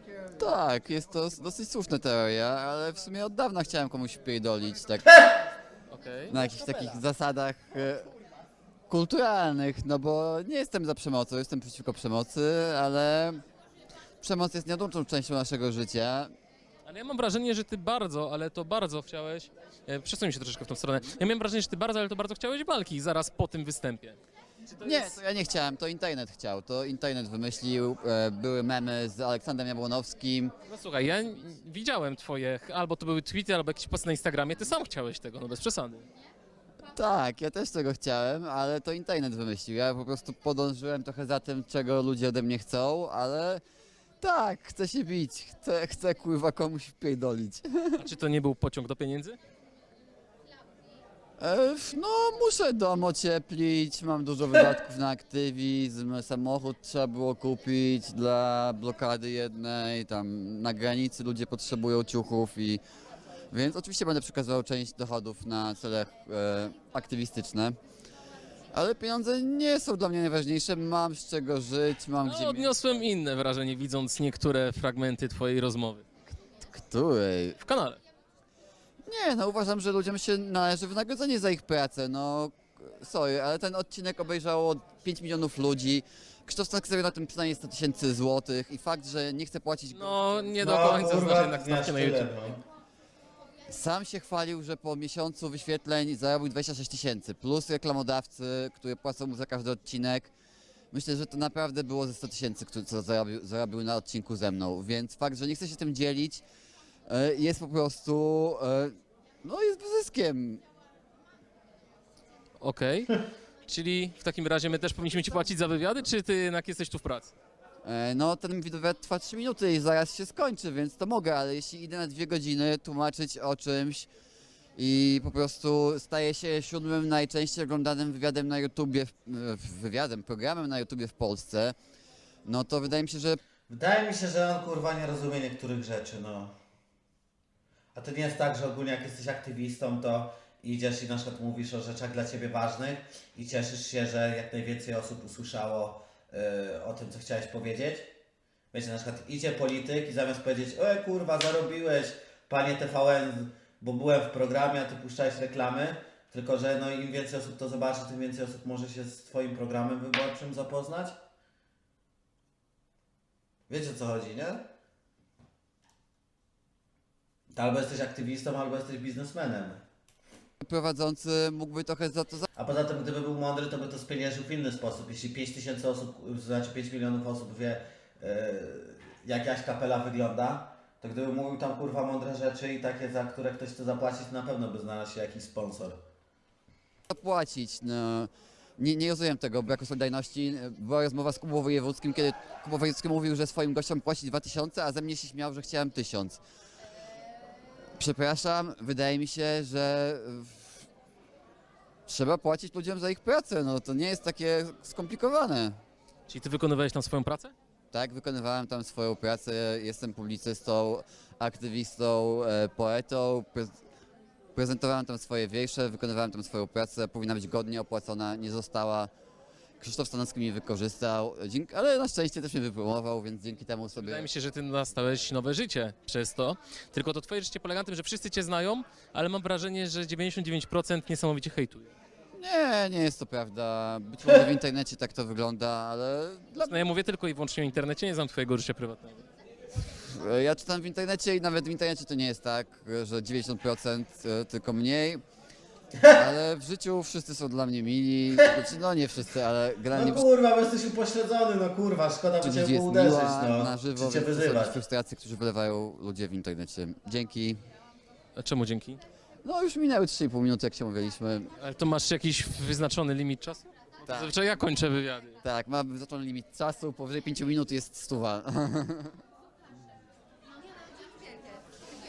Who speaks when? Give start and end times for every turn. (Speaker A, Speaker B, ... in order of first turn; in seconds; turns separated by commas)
Speaker A: 0.3-5.3, Speaker B: 5.9-7.0, Speaker A: 6.3-8.1, Speaker A: 8.9-13.4, Speaker A: 14.2-16.3, Speaker B: 16.9-24.2, Speaker B: 24.7-25.2, Speaker A: 24.8-30.5, Speaker B: 30.6-36.1, Speaker A: 36.8-43.6, Speaker A: 44.2-48.1, Speaker B: 48.0-49.4, Speaker A: 51.4-62.8, Speaker A: 63.5-67.8, Speaker A: 68.7-72.8, Speaker B: 72.2-76.0, Speaker A: 76.6-77.6, Speaker B: 77.6-78.0, Speaker A: 79.1-90.5, Speaker B: 89.9-92.3, Speaker C: 90.6-92.6, Speaker A: 93.7-100.3, Speaker A: 100.9-106.4, Speaker A: 107.1-110.6, Speaker B: 112.6-117.3, Speaker A: 117.8-124.1, Speaker A: 124.8-131.8, Speaker A: 132.4-133.4, Speaker C: 133.7-136.5, Speaker C: 137.9-148.1, Speaker C: 148.7-161.2, Speaker C: 163.7-164.7, Speaker C: 167.5-169.8, Speaker A: 170.6-172.5, Speaker C: 172.6-186.0, Speaker A: 187.1-196.4, Speaker A: 198.0-200.8, Speaker A: 202.1-205.8, Speaker B: 206.3-207.5, Speaker A: 207.9-213.8, Speaker A: 214.6-219.1, Speaker A: 219.8-224.3, Speaker B: 224.0-231.9, Speaker A: 232.3-236.9, Speaker B: 236.6-239.2, Speaker A: 239.8-245.2, Speaker A: 246.2-250.3, Speaker C: 249.9-254.8, Speaker A: 252.4-257.6, Speaker B: 258.4-259.0, Speaker A: 259.4-261.5, Speaker B: 261.6-265.4, Speaker A: 264.1-264.3, Speaker A: 265.4-269.2